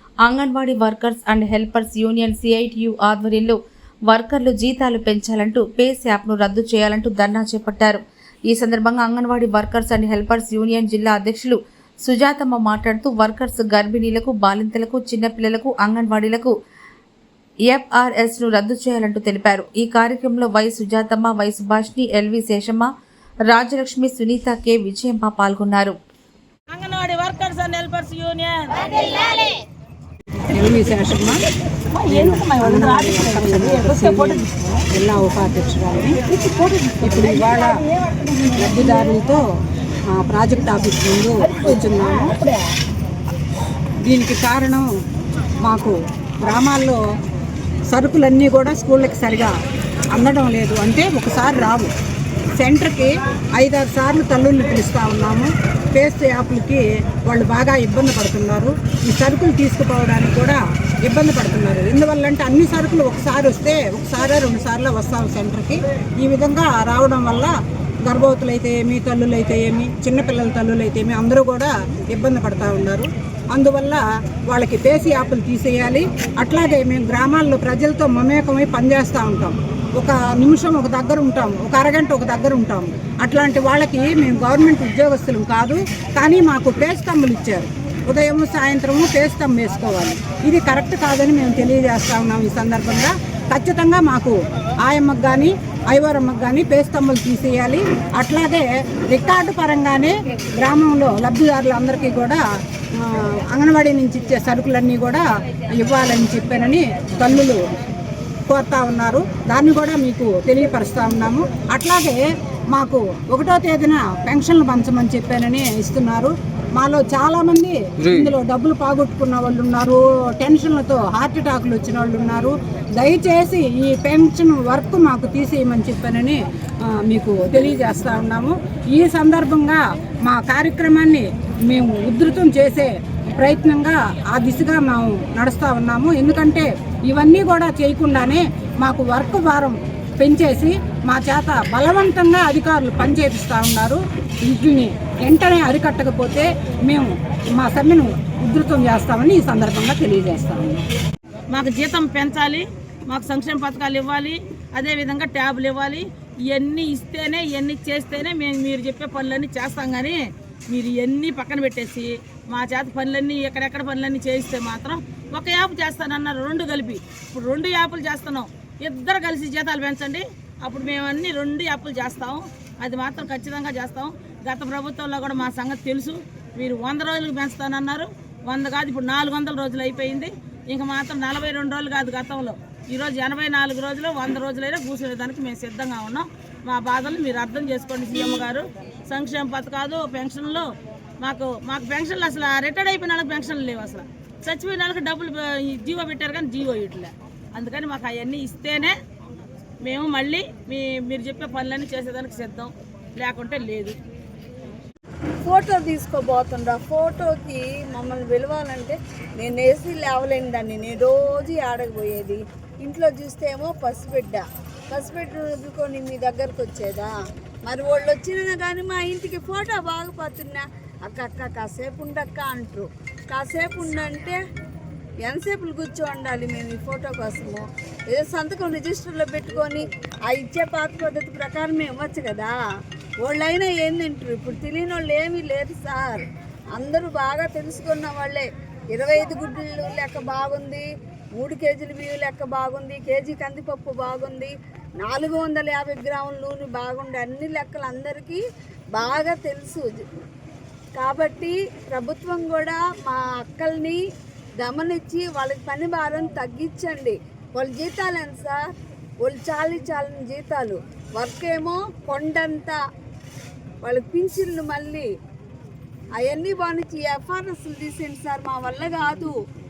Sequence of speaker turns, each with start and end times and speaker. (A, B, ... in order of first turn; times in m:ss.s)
0:00.2-0:03.6 A
0:04.1-0:16.5 A
0:17.7-0:22.9 A
0:23.5-0:26.0 A
0:26.7-0:29.6 B
0:30.5-0:31.4 C
0:31.9-0:34.8 B
0:32.1-0:36.3 C
0:36.4-0:37.0 B
0:36.9-0:37.7 C
0:38.5-0:39.4 C
0:40.1-0:42.3 C
0:41.7-0:42.6 B
0:44.1-0:44.9 C
0:45.6-0:45.9 C
0:46.4-0:47.0 C
0:47.9-0:49.5 C
0:50.1-0:51.9 C
0:52.6-1:07.5 C
1:08.1-1:42.4 C
1:43.0-1:47.6 C
1:48.5-1:52.2 C
1:52.7-2:30.8 C
2:31.5-3:10.7 B
3:11.2-3:19.0 B
3:19.8-3:24.0 B
3:25.4-3:37.1 D
3:37.6-3:44.4 D
3:45.2-3:52.5 D
3:53.2-4:08.4 D
4:08.9-4:10.0 D
4:11.0-4:14.0 D
4:14.6-4:18.7 D
4:19.2-4:22.8 D
4:23.8-4:25.1 D
4:26.2-4:29.4 D